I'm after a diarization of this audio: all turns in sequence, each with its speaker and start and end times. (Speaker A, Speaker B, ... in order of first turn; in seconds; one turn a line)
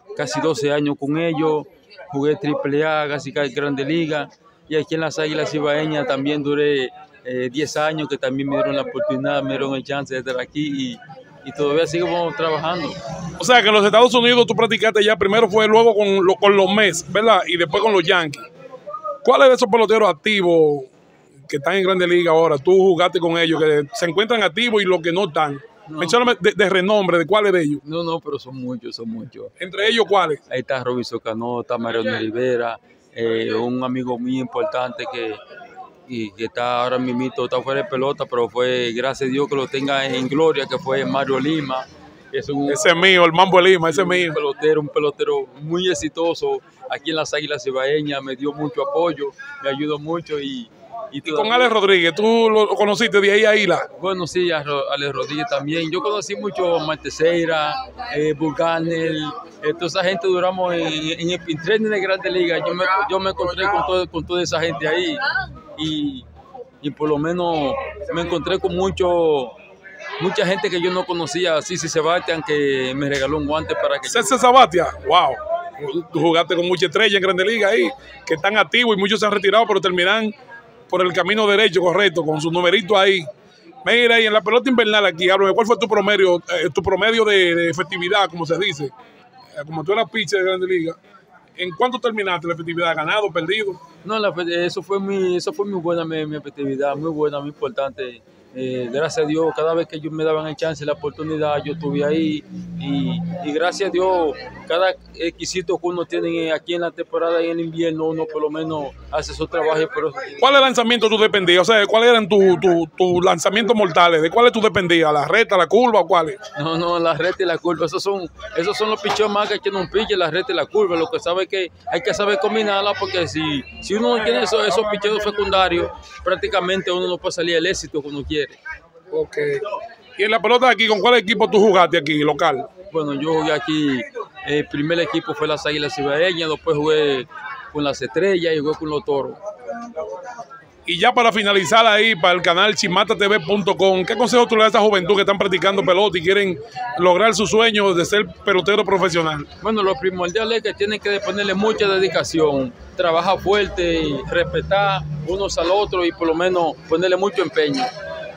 Speaker A: 0.1-13.0
Speaker B: 13.4-18.4
Speaker B: 19.2-20.9
Speaker B: 21.5-27.8
Speaker A: 25.9-26.3
Speaker A: 27.8-29.5
Speaker B: 29.6-30.4
Speaker A: 30.5-35.4
Speaker A: 36.1-42.9
Speaker B: 42.7-44.4
Speaker A: 43.9-51.7
Speaker B: 51.3-53.9
Speaker A: 54.0-65.2
Speaker A: 65.8-66.2
Speaker A: 66.8-69.6
Speaker A: 70.2-74.4
Speaker B: 74.1-80.3
Speaker B: 80.9-83.3
Speaker B: 83.8-88.9
Speaker B: 89.5-91.0
Speaker B: 91.6-93.8
Speaker A: 94.0-110.6
Speaker B: 110.4-116.4
Speaker A: 116.5-128.6
Speaker B: 129.1-129.6
Speaker B: 130.2-132.7
Speaker A: 132.9-139.4
Speaker B: 140.8-149.5
Speaker A: 149.6-157.9